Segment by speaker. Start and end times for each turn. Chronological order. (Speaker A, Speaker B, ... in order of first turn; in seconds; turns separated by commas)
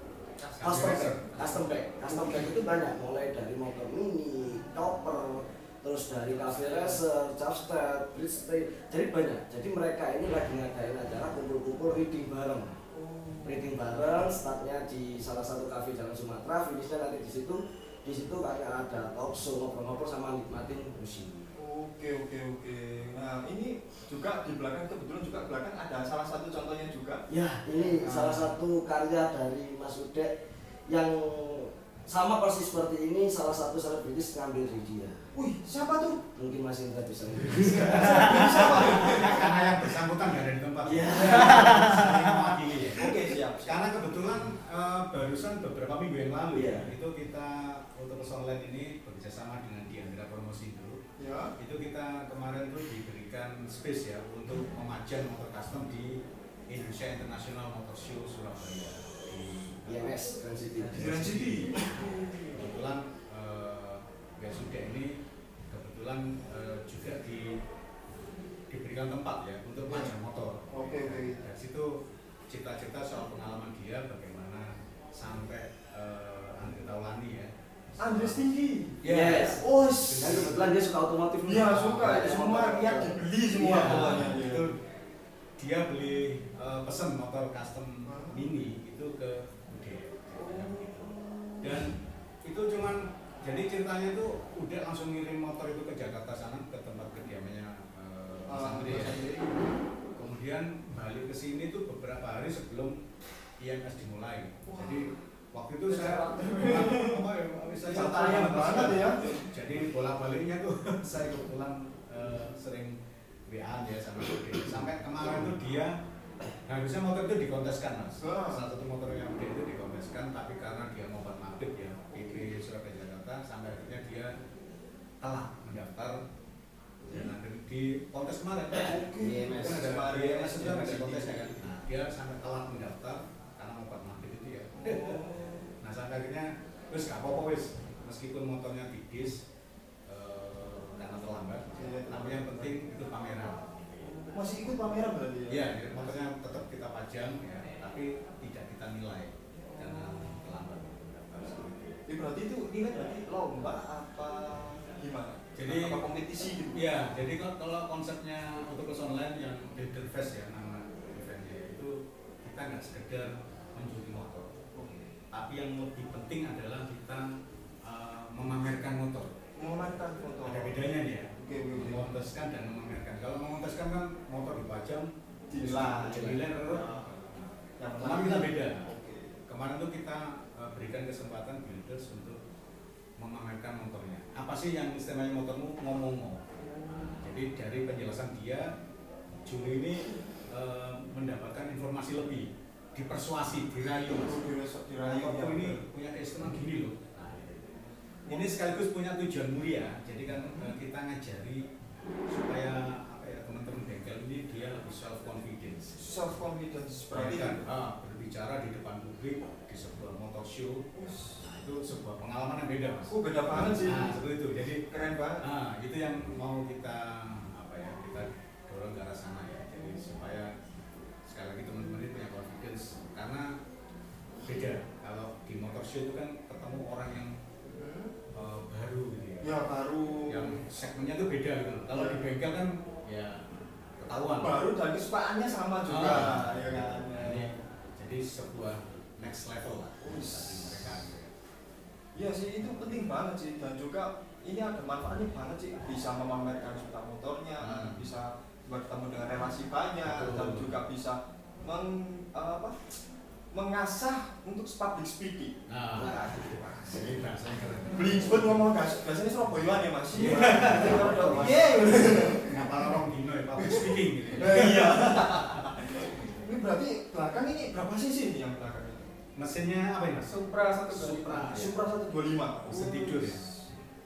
Speaker A: 0.4-1.6, Speaker B: 0.6-1.3, Speaker C: 0.6-12.7, Speaker A: 6.3-7.0, Speaker D: 12.9-13.7, Speaker C: 13.4-21.5, Speaker D: 21.6-27.2, Speaker C: 27.3-30.3, Speaker D: 28.0-28.5, Speaker C: 30.9-35.2, Speaker D: 35.3-36.2, Speaker C: 36.4-39.4, Speaker B: 37.4-51.0, Speaker D: 37.8-39.6, Speaker C: 40.8-42.5, Speaker D: 41.1-41.5, Speaker D: 42.9-43.9, Speaker C: 46.5-46.9, Speaker D: 51.2-51.5, Speaker B: 51.6-60.2, Speaker C: 59.9-61.2, Speaker B: 60.8-65.1, Speaker D: 60.9-62.7, Speaker B: 65.7-67.6, Speaker B: 68.7-71.9, Speaker D: 69.9-70.1, Speaker D: 70.7-71.4, Speaker B: 72.5-78.4, Speaker D: 78.0-79.0, Speaker B: 79.0-80.7, Speaker C: 79.0-79.6, Speaker D: 79.5-80.5, Speaker C: 80.2-84.0, Speaker D: 81.4-84.7, Speaker B: 82.0-82.3, Speaker B: 83.6-84.8, Speaker B: 85.6-99.2, Speaker D: 88.0-88.5, Speaker D: 90.4-91.9, Speaker D: 98.5-99.6, Speaker B: 100.2-103.0, Speaker B: 103.6-113.0, Speaker D: 104.7-105.1, Speaker A: 105.8-107.1, Speaker D: 107.8-109.4, Speaker B: 113.5-115.9, Speaker D: 115.2-115.5, Speaker B: 116.7-124.3, Speaker D: 118.2-118.7, Speaker D: 122.1-122.5, Speaker B: 125.2-126.2, Speaker B: 127.1-135.2, Speaker D: 128.7-131.6, Speaker C: 128.8-129.8, Speaker D: 134.8-135.7, Speaker B: 135.8-139.4, Speaker B: 140.1-144.2, Speaker D: 141.7-142.7, Speaker D: 144.1-146.2, Speaker B: 145.5-152.0, Speaker D: 149.7-150.2, Speaker D: 151.4-156.9, Speaker B: 155.5-156.0, Speaker B: 156.7-161.9, Speaker B: 162.4-164.5, Speaker D: 164.7-165.1, Speaker B: 165.3-167.2, Speaker B: 167.8-169.3, Speaker D: 169.6-170.8, Speaker B: 170.4-175.1, Speaker D: 171.4-172.0, Speaker D: 175.5-179.4, Speaker B: 175.6-176.8, Speaker B: 178.0-178.8, Speaker B: 179.5-182.3, Speaker B: 183.2-188.7, Speaker D: 186.6-187.1, Speaker B: 189.4-194.4, Speaker D: 194.1-195.8, Speaker B: 195.0-201.7, Speaker D: 197.8-198.6, Speaker B: 202.3-206.0, Speaker D: 206.0-207.7, Speaker B: 207.1-210.8, Speaker D: 210.9-211.4, Speaker B: 211.4-214.8, Speaker D: 213.1-214.2, Speaker D: 214.9-215.4, Speaker B: 215.4-220.5, Speaker B: 221.3-223.5, Speaker B: 224.4-227.3, Speaker D: 227.6-228.1, Speaker B: 228.3-229.6, Speaker D: 229.4-230.6, Speaker B: 230.3-233.4, Speaker D: 231.9-232.3, Speaker B: 234.0-234.5, Speaker D: 234.4-237.5, Speaker B: 235.8-241.3, Speaker D: 240.0-241.0, Speaker D: 242.1-252.8, Speaker B: 247.6-248.0, Speaker B: 250.0-250.7, Speaker D: 253.5-255.5, Speaker B: 255.7-258.6, Speaker C: 255.9-257.2, Speaker D: 257.9-262.8, Speaker B: 260.1-265.6, Speaker C: 260.1-262.4, Speaker D: 263.6-269.1, Speaker B: 269.4-270.4, Speaker A: 270.2-271.6, Speaker B: 270.9-271.7, Speaker D: 271.5-273.7, Speaker B: 272.7-273.4